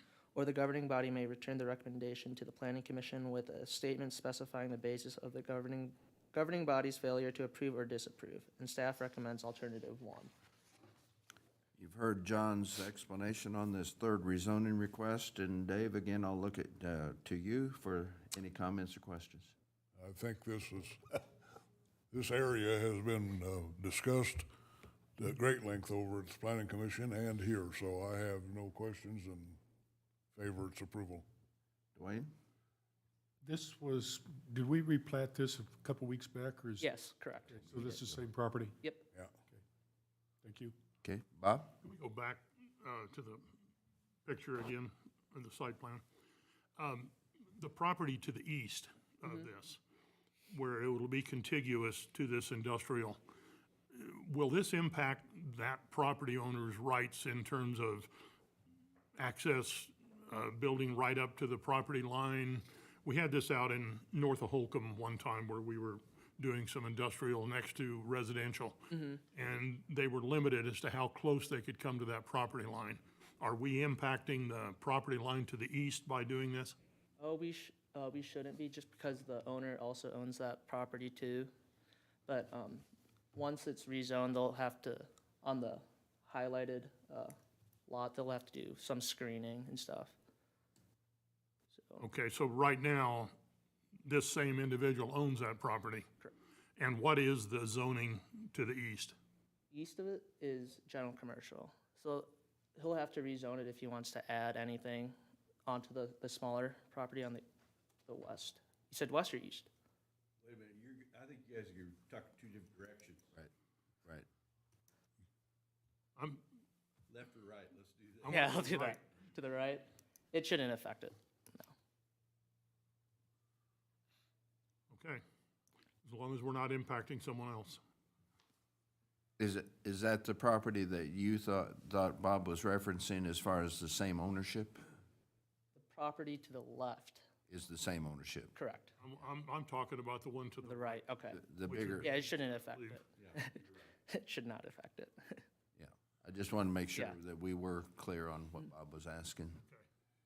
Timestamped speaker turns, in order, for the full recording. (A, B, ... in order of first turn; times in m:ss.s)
0:00.3-0:10.3 A
0:11.8-0:19.5 B
0:20.0-0:21.2 C
0:22.1-0:24.4 C
0:25.2-0:29.6 C
0:30.3-0:31.2 C
0:32.0-0:32.3 B
0:33.4-0:36.9 D
0:36.8-0:38.0 A
0:37.5-0:38.8 D
0:40.4-0:40.7 D
0:41.0-0:41.7 B
0:41.8-0:43.4 E
0:44.2-0:46.0 E
0:46.8-0:49.8 E
0:50.5-0:53.2 E
0:53.9-0:58.1 E
0:59.1-1:16.8 E
1:17.2-1:21.5 A
1:22.2-1:27.3 A
1:27.9-1:30.1 A
1:31.7-1:32.0 A
1:32.0-1:33.3 E
1:34.0-1:36.1 E
1:36.8-1:39.2 E
1:39.7-1:47.4 A
1:48.1-1:49.7 A
1:50.4-1:53.3 F
1:56.2-1:56.4 E
1:57.1-1:58.6 F
1:58.2-1:59.0 E
1:58.2-2:01.2 A
2:04.9-2:05.2 E
2:06.0-2:07.8 E
2:09.4-2:14.8 B
2:15.7-2:17.2 A
2:17.5-2:18.5 B
2:18.5-2:18.9 A
2:19.0-2:21.0 E
2:20.6-2:21.4 A
2:21.3-2:22.1 B
2:21.6-2:23.0 E
2:22.0-2:25.4 A
2:23.2-2:23.8 F
2:25.8-2:29.6 B